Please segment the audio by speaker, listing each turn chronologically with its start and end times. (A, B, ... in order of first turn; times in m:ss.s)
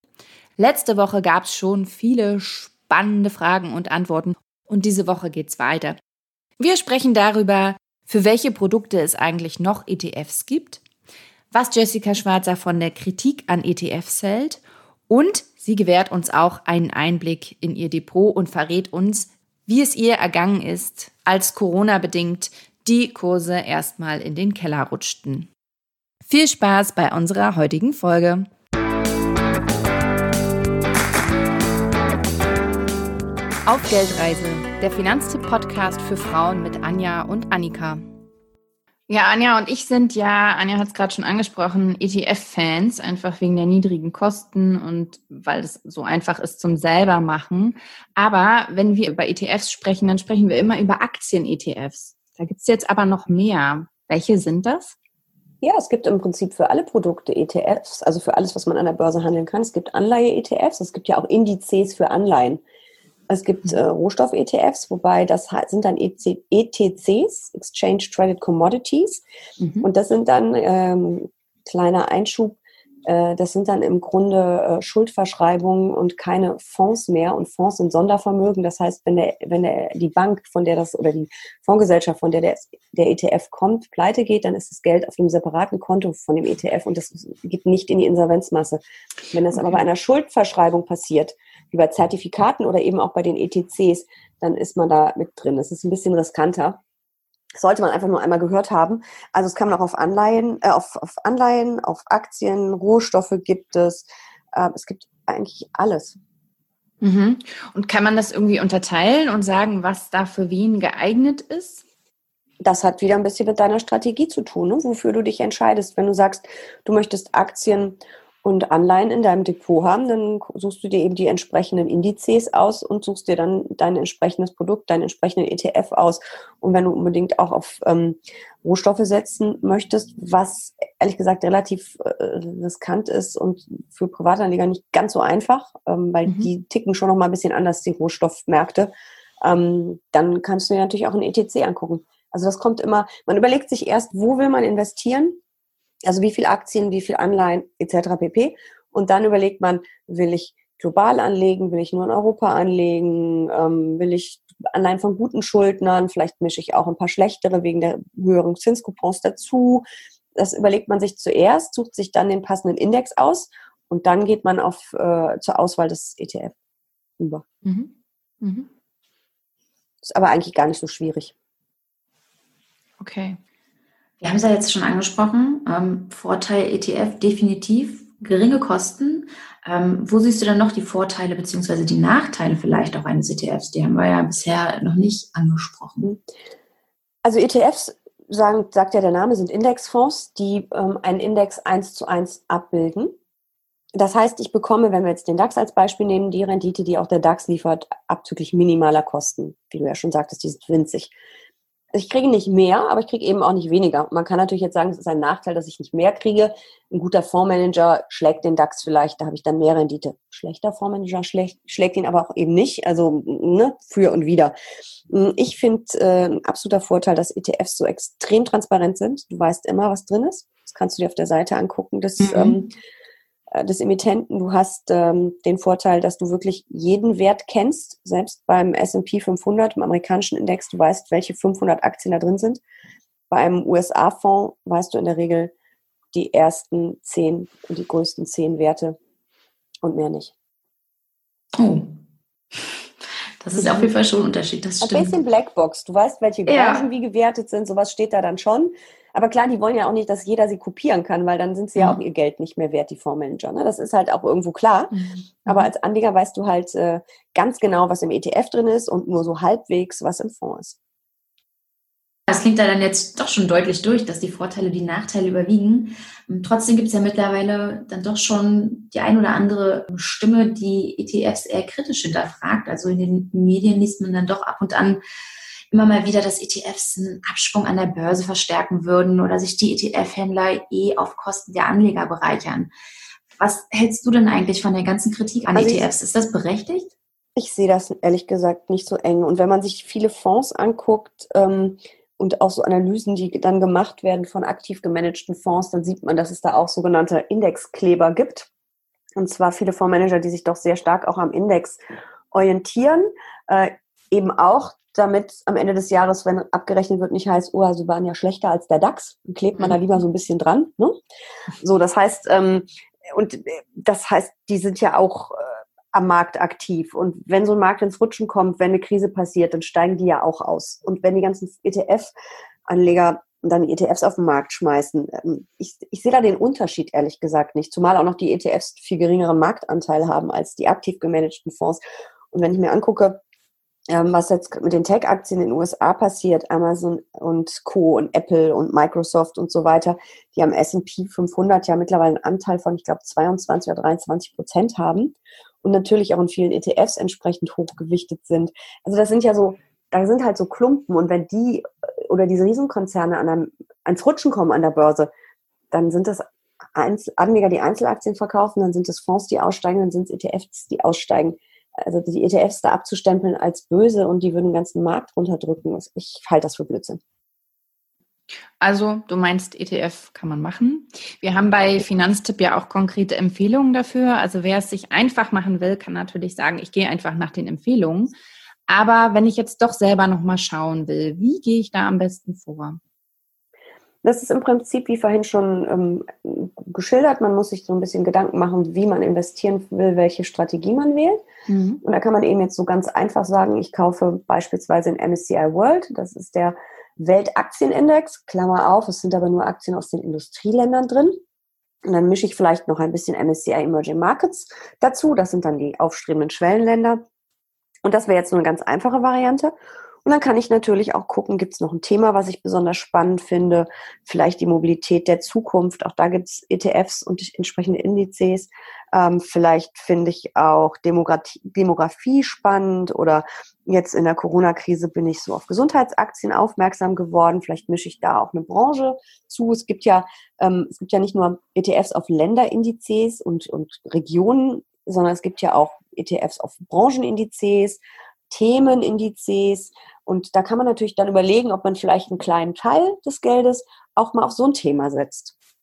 0:00.6-0:06.0 A
0:06.6-0:10.8 A
0:11.5-0:25.5 A
0:26.3-0:28.5 A
0:33.7-0:38.1 A
0:39.1-0:55.0 A
0:55.6-1:02.6 B
1:03.3-1:09.2 B
1:09.6-1:09.9 A
1:09.8-1:36.8 B
1:37.6-1:46.2 B
1:47.0-1:51.8 A
1:52.6-2:18.9 B
2:19.4-2:25.4 B
2:26.0-2:46.6 B
2:47.2-2:47.4 B
2:47.6-2:47.9 A
2:48.4-2:48.7 A
2:50.0-2:51.3 B
2:53.0-2:53.4 A
2:54.2-3:06.1 C
3:07.2-3:13.1 B
3:14.0-3:21.1 B
3:21.9-3:34.5 B
3:35.1-3:42.7 B
3:42.2-3:42.7 C
3:43.5-3:52.6 B
3:53.3-3:55.5 B
3:56.1-3:59.0 B
3:59.8-4:00.3 B
4:01.6-4:02.0 C
4:02.6-4:02.8 C
4:03.4-4:05.2 C
4:03.6-4:03.9 B
4:04.8-4:20.8 B
4:06.5-4:06.8 C
4:22.3-4:35.0 C
4:35.7-4:42.7 C
4:43.4-4:46.9 C
4:45.5-4:45.9 B
4:47.4-4:58.5 B
4:59.2-5:01.8 B
5:02.3-5:11.0 B
5:11.6-5:22.1 B
5:22.7-5:31.8 B
5:32.3-5:33.2 B
5:33.9-5:55.1 B
5:55.7-6:07.0 B
6:08.6-6:18.1 A
6:18.7-6:22.8 A
6:24.0-6:31.2 B
6:31.5-6:31.8 A
6:31.8-6:41.2 B
6:41.8-6:47.0 B
6:47.8-6:49.5 B
6:50.0-7:25.3 B